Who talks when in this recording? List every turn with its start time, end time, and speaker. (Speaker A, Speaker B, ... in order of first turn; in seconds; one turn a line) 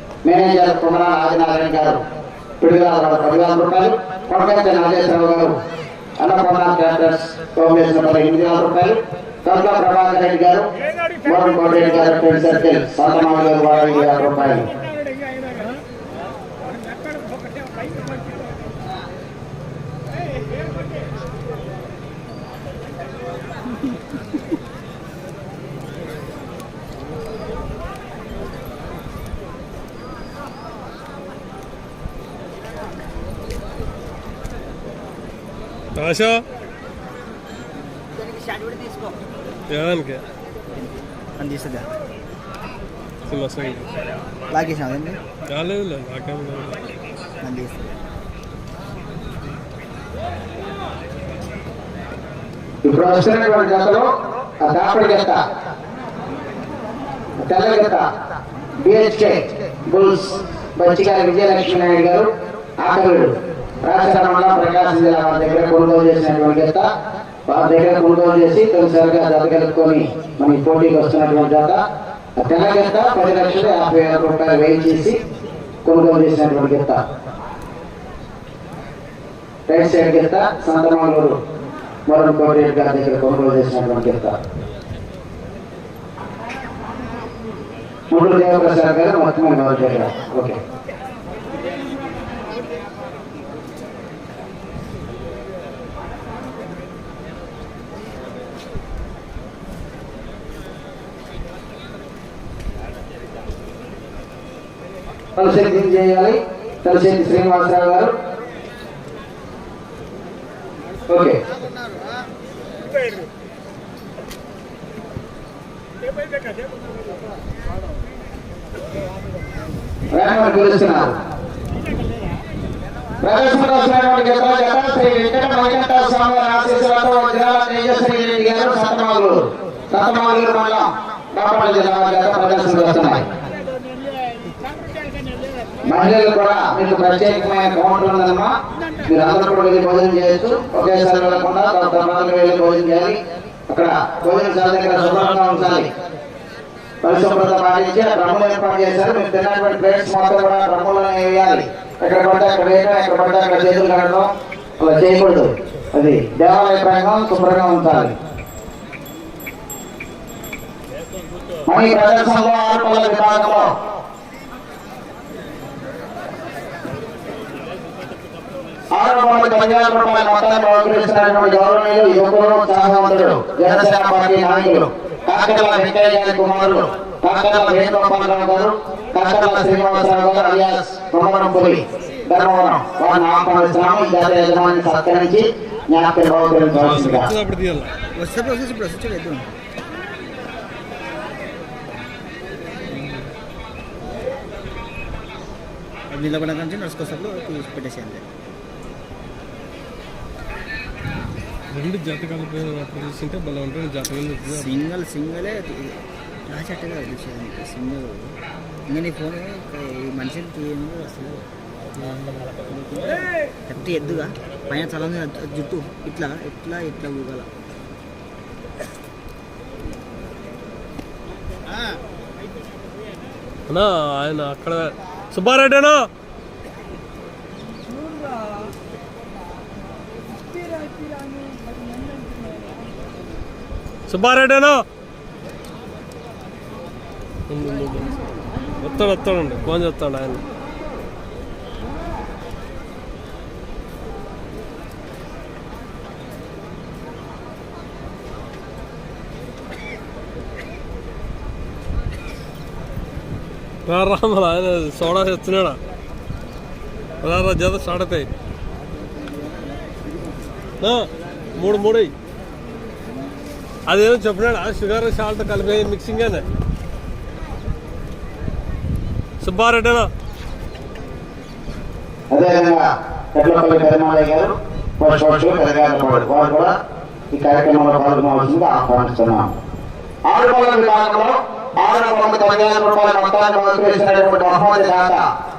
Speaker A: 0.2-2.0
Speaker A: 2.6-5.6
Speaker A: 6.2-10.7
Speaker A: 11.2-14.7
Speaker B: 36.0-36.4
Speaker C: 38.2-39.2
Speaker B: 39.7-40.2
Speaker C: 41.4-41.9
Speaker B: 43.3-43.9
Speaker C: 44.5-45.2
Speaker B: 45.5-46.8
Speaker C: 47.4-47.9
Speaker A: 52.8-55.4
Speaker A: 57.4-58.1
Speaker A: 58.8-62.3
Speaker A: 62.8-66.9
Speaker A: 67.5-71.8
Speaker A: 72.4-75.2
Speaker A: 75.8-77.0
Speaker A: 79.7-81.4
Speaker A: 82.1-84.4
Speaker A: 88.1-90.6
Speaker A: 105.4-108.1
Speaker A: 111.1-111.4
Speaker A: 120.1-121.2
Speaker A: 123.2-133.3
Speaker A: 135.9-138.5
Speaker A: 139.1-145.9
Speaker A: 147.0-158.2
Speaker A: 161.7-163.7
Speaker A: 168.9-187.3
Speaker B: 186.8-187.9
Speaker C: 188.2-189.5
Speaker C: 196.1-198.2
Speaker B: 201.7-204.7
Speaker C: 204.5-208.4
Speaker C: 208.9-217.5
Speaker B: 223.7-226.1
Speaker B: 234.1-234.8
Speaker B: 237.5-238.2
Speaker B: 238.8-240.4
Speaker B: 253.9-255.8
Speaker B: 257.2-258.3
Speaker B: 260.8-262.1
Speaker B: 263.9-266.5
Speaker B: 269.4-270.1
Speaker A: 272.3-276.8
Speaker A: 277.3-279.5
Speaker A: 280.3-285.3